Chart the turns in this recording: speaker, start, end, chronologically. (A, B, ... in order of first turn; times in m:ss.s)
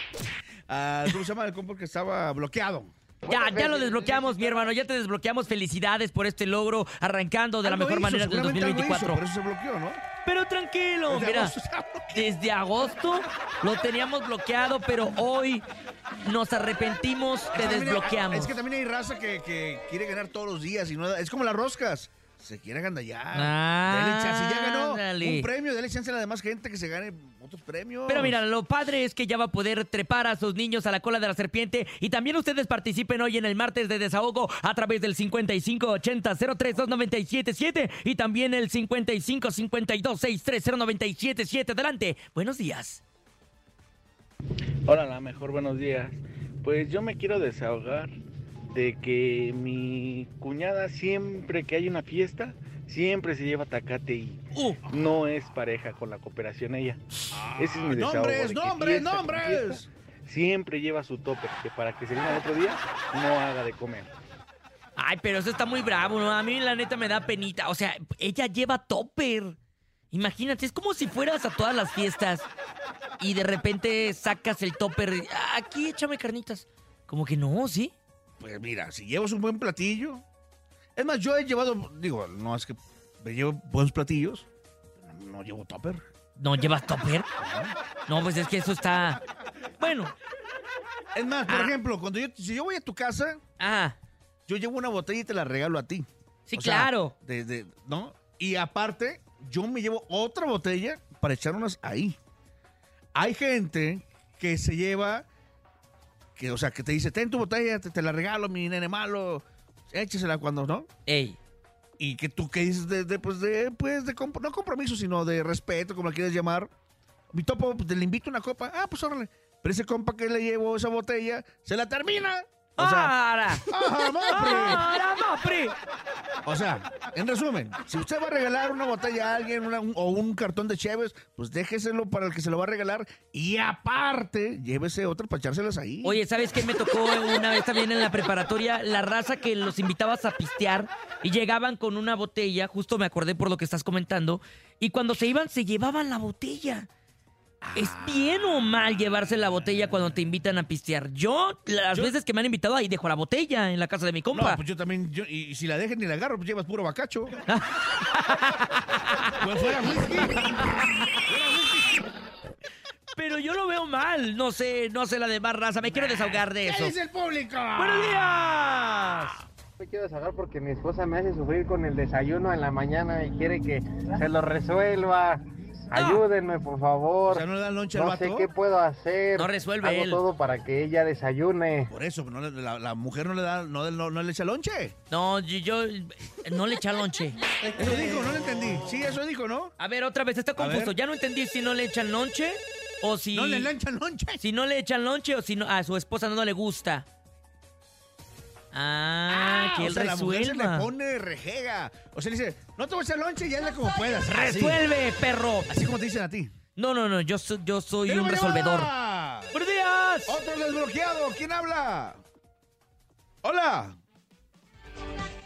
0:00.7-0:02.9 A
0:03.2-0:09.2 B
0:07.6-0:10.0 A
0:10.2-0:11.6 B
0:11.1-0:12.3 A
0:12.1-0:15.6 B
0:16.2-0:18.6 B
0:17.5-0:28.4 A
0:23.3-0:25.5 B
0:28.1-0:43.0 B
0:44.8-0:48.2 C
0:48.7-1:04.1 C
0:57.3-0:59.8 A
1:05.0-1:09.6 B
1:10.1-1:12.5 B
1:13.2-1:17.9 B
1:18.4-1:20.2 A
1:21.0-1:24.5 A
1:25.0-1:26.0 A
1:26.4-1:27.3 B
1:27.4-1:27.7 A
1:28.1-1:29.2 B
1:29.8-1:30.1 B
1:31.1-1:33.4 A
1:33.6-1:33.9 B
1:34.5-1:42.2 A
1:36.5-1:37.1 B
1:43.1-1:45.2 A
1:46.4-1:50.9 A
1:51.0-1:51.4 B
1:52.0-1:56.7 A
1:57.3-2:03.1 A
2:02.8-2:03.7 B
2:03.6-2:04.9 A
2:04.3-2:05.7 B
2:06.4-2:16.2 A
2:16.0-2:26.9 B
2:27.6-2:28.6 A
2:27.8-2:34.6 B
2:34.3-2:37.3 A
2:37.5-2:39.4 B
2:39.4-2:40.5 A
2:40.3-2:41.1 B
2:41.2-2:42.1 A
2:43.2-2:47.0 B
2:46.3-2:48.3 A
2:47.8-2:49.4 B
2:49.8-3:01.9 D
2:55.9-2:56.2 B
2:57.3-2:58.5 A
2:59.3-3:00.2 B
3:01.9-3:04.9 A
3:05.1-3:07.4 B
3:07.8-3:09.7 A
3:09.8-3:13.7 B
3:10.6-3:11.0 A
3:13.3-3:14.4 A
3:14.4-3:17.1 B
3:18.7-3:20.9 B
3:19.3-3:24.8 A
3:24.3-3:25.7 B
3:25.7-3:26.5 A
3:26.8-3:28.9 B
3:28.1-3:29.6 A
3:29.5-3:30.3 B
3:30.3-3:32.2 A
3:33.4-3:34.0 A